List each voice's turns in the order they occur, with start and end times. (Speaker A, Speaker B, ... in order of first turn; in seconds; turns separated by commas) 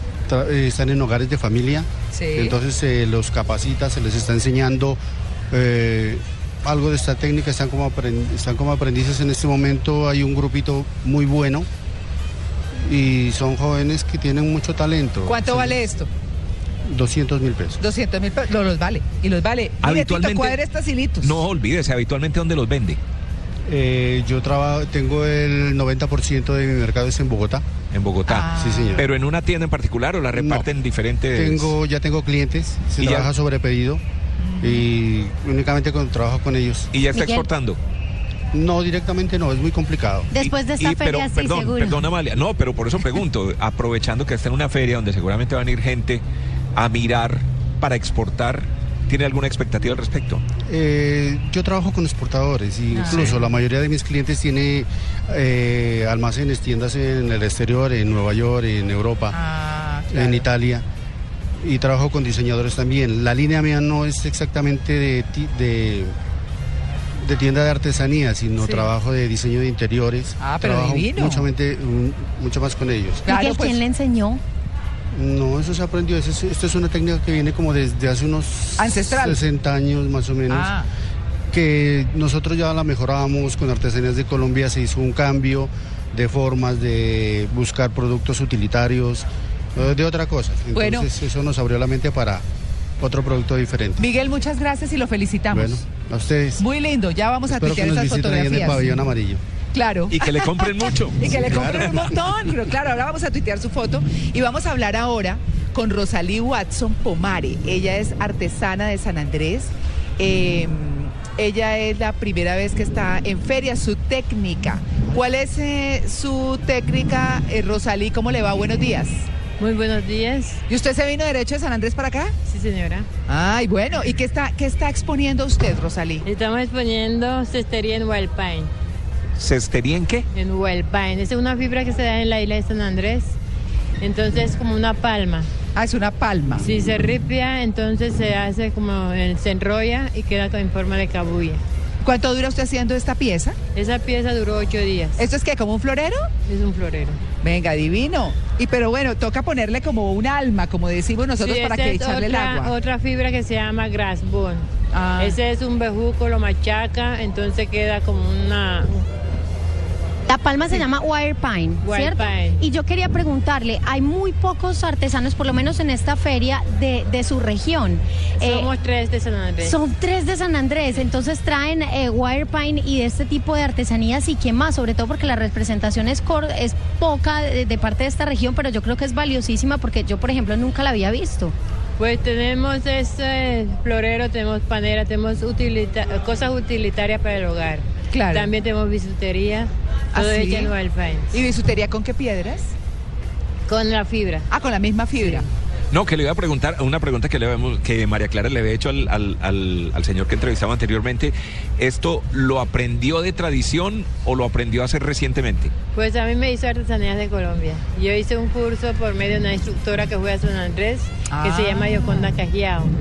Speaker A: 0.3-5.0, Speaker B: 2.1-2.6, Speaker A: 5.5-11.7, Speaker A: 12.8-15.8, Speaker B: 15.2-16.1, Speaker A: 16.9-17.8, Speaker B: 17.8-21.4, Speaker C: 19.8-20.6, Speaker C: 21.2-23.0, Speaker A: 23.7-27.6, Speaker C: 27.9-31.7, Speaker B: 28.3-29.1, Speaker A: 28.5-29.1, Speaker A: 30.3-30.7, Speaker A: 31.3-34.0, Speaker C: 33.0-33.3, Speaker B: 34.4-34.9, Speaker A: 34.6-37.0, Speaker C: 36.9-37.8, Speaker D: 37.1-37.5, Speaker A: 38.5-40.4, Speaker D: 40.3-42.1, Speaker C: 40.4-46.2, Speaker C: 46.8-50.4, Speaker A: 50.7-59.4, Speaker B: 52.9-53.4, Speaker B: 59.3-60.5, Speaker A: 60.1-60.9, Speaker A: 61.6-66.1, Speaker A: 67.2-73.3, Speaker B: 68.6-68.9, Speaker B: 70.4-71.5, Speaker B: 73.2-73.8, Speaker D: 73.3-74.4, Speaker A: 75.1-80.7, Speaker B: 78.8-79.4, Speaker B: 80.5-80.9, Speaker A: 81.5-92.4, Speaker B: 90.7-91.1, Speaker A: 93.0-94.0, Speaker B: 94.0-95.8, Speaker A: 95.5-96.6, Speaker B: 96.6-98.9, Speaker A: 97.5-99.4, Speaker B: 99.7-119.3, Speaker C: 100.1-102.1, Speaker A: 101.5-101.8, Speaker E: 119.6-120.6, Speaker B: 120.7-122.4, Speaker E: 122.5-123.1, Speaker B: 123.3-126.2, Speaker E: 126.2-128.7, Speaker C: 129.4-130.2, Speaker E: 130.3-133.4, Speaker E: 134.0-135.5, Speaker B: 135.8-136.7, Speaker E: 136.6-141.6, Speaker B: 142.0-143.6, Speaker E: 143.8-145.2, Speaker B: 145.2-146.3, Speaker E: 146.5-147.2, Speaker B: 147.4-152.8, Speaker E: 151.4-159.1, Speaker B: 154.9-155.4, Speaker D: 160.3-168.7, Speaker E: 161.8-162.6, Speaker E: 168.4-169.8, Speaker D: 169.6-181.5, Speaker E: 182.0-191.3, Speaker B: 188.1-188.5, Speaker B: 190.1-190.7, Speaker B: 191.3-192.7, Speaker E: 193.7-194.5, Speaker B: 194.5-195.5, Speaker E: 195.2-195.5, Speaker C: 195.9-205.7, Speaker E: 205.9-212.9, Speaker B: 211.3-212.3